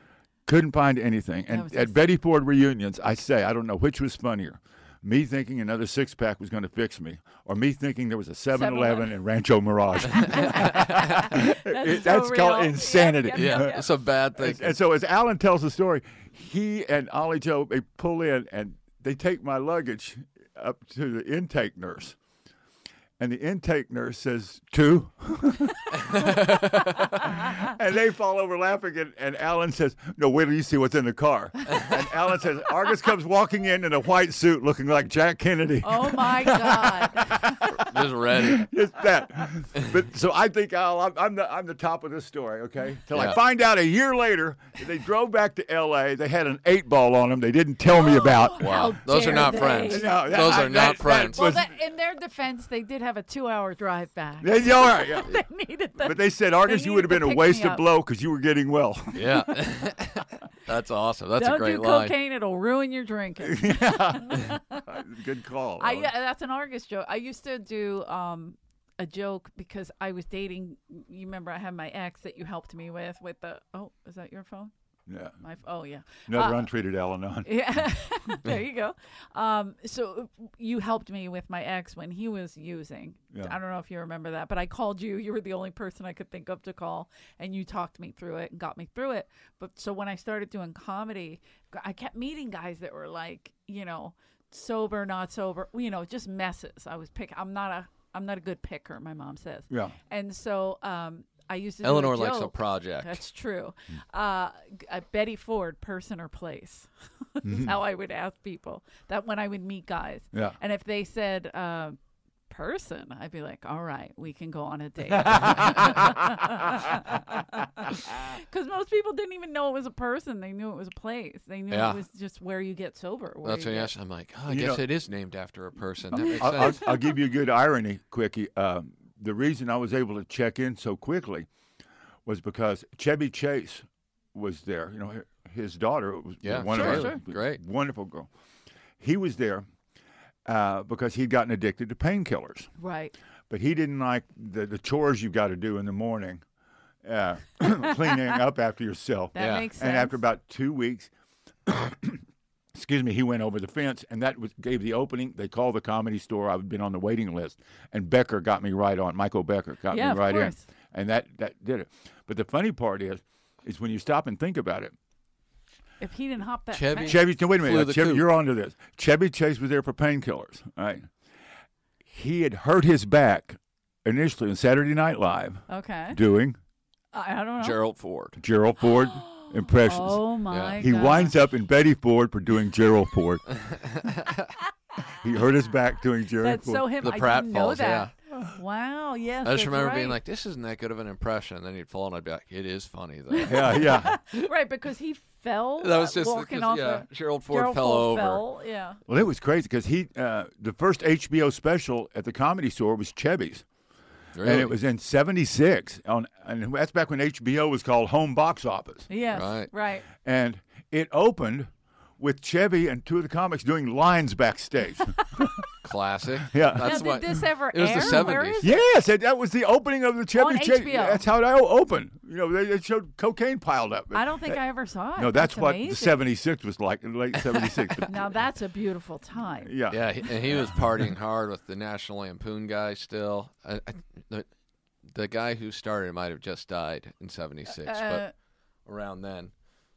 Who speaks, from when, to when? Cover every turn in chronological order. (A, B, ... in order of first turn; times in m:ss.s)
0:00.5-0:13.8 A
0:01.5-0:02.0 B
0:08.5-0:09.1 B
0:10.1-0:13.9 B
0:10.5-0:10.9 C
0:13.3-0:14.8 C
0:14.4-0:22.2 A
0:23.2-0:51.7 A
0:26.0-0:27.0 C
0:35.8-0:37.6 B
0:37.7-0:38.6 C
0:43.1-0:43.4 C
0:47.9-0:57.9 B
0:48.6-0:51.4 C
0:54.4-0:55.4 A
0:56.0-0:59.6 A
0:59.2-1:02.1 C
1:01.4-1:05.0 B
1:03.4-1:06.1 A
1:05.8-1:14.7 B
1:15.1-1:15.4 A
1:15.4-1:16.7 B
1:16.3-1:17.8 A
1:17.4-1:52.0 B
1:39.7-1:40.0 A
1:41.8-1:43.2 C
1:47.4-1:47.8 A
1:52.5-2:03.9 B
1:55.1-1:57.2 A
2:01.7-2:02.0 C
2:03.4-2:06.9 C
2:04.5-2:04.9 A
2:06.1-2:11.5 A
2:06.6-2:07.1 B
2:12.3-2:18.3 A
2:16.4-2:17.6 C
2:16.7-2:17.2 B
2:19.0-2:19.7 A
2:20.4-2:22.7 A
2:22.8-2:23.1 B
2:23.5-2:26.4 A
2:27.0-2:31.1 A
2:29.3-2:30.2 B
2:29.4-2:29.7 C
2:31.7-2:32.2 A
2:32.7-2:45.0 A
2:39.9-2:40.6 B
2:46.0-2:47.2 B
2:46.7-2:48.2 C
2:47.0-2:51.1 A
2:52.1-2:56.6 A
2:55.7-2:56.2 B
2:57.1-2:57.8 B
2:57.6-2:58.4 C
2:58.4-3:03.6 A
2:59.0-3:01.5 B
3:00.5-3:00.8 C
3:03.6-3:04.5 C
3:05.2-3:06.9 A
3:06.4-3:10.2 B
3:07.0-3:08.1 C
3:09.4-3:14.5 C
3:13.3-3:19.0 B
3:13.5-3:14.2 A
3:15.8-3:18.4 C
3:19.1-3:23.6 A
3:24.4-3:24.7 C
3:24.4-3:29.1 A
3:29.1-3:30.1 B
3:29.3-3:29.7 C
3:30.2-3:35.6 A
3:35.8-3:38.6 C
3:36.5-3:37.2 A
3:36.8-3:38.8 B
3:38.1-3:44.6 A
3:40.3-3:41.2 B
3:44.1-3:46.2 B
3:45.2-3:48.2 A
3:48.1-3:49.8 B
3:49.6-3:51.0 A
3:49.9-3:54.5 C
3:55.1-3:58.2 C
3:57.7-3:58.3 B
3:58.9-3:59.5 C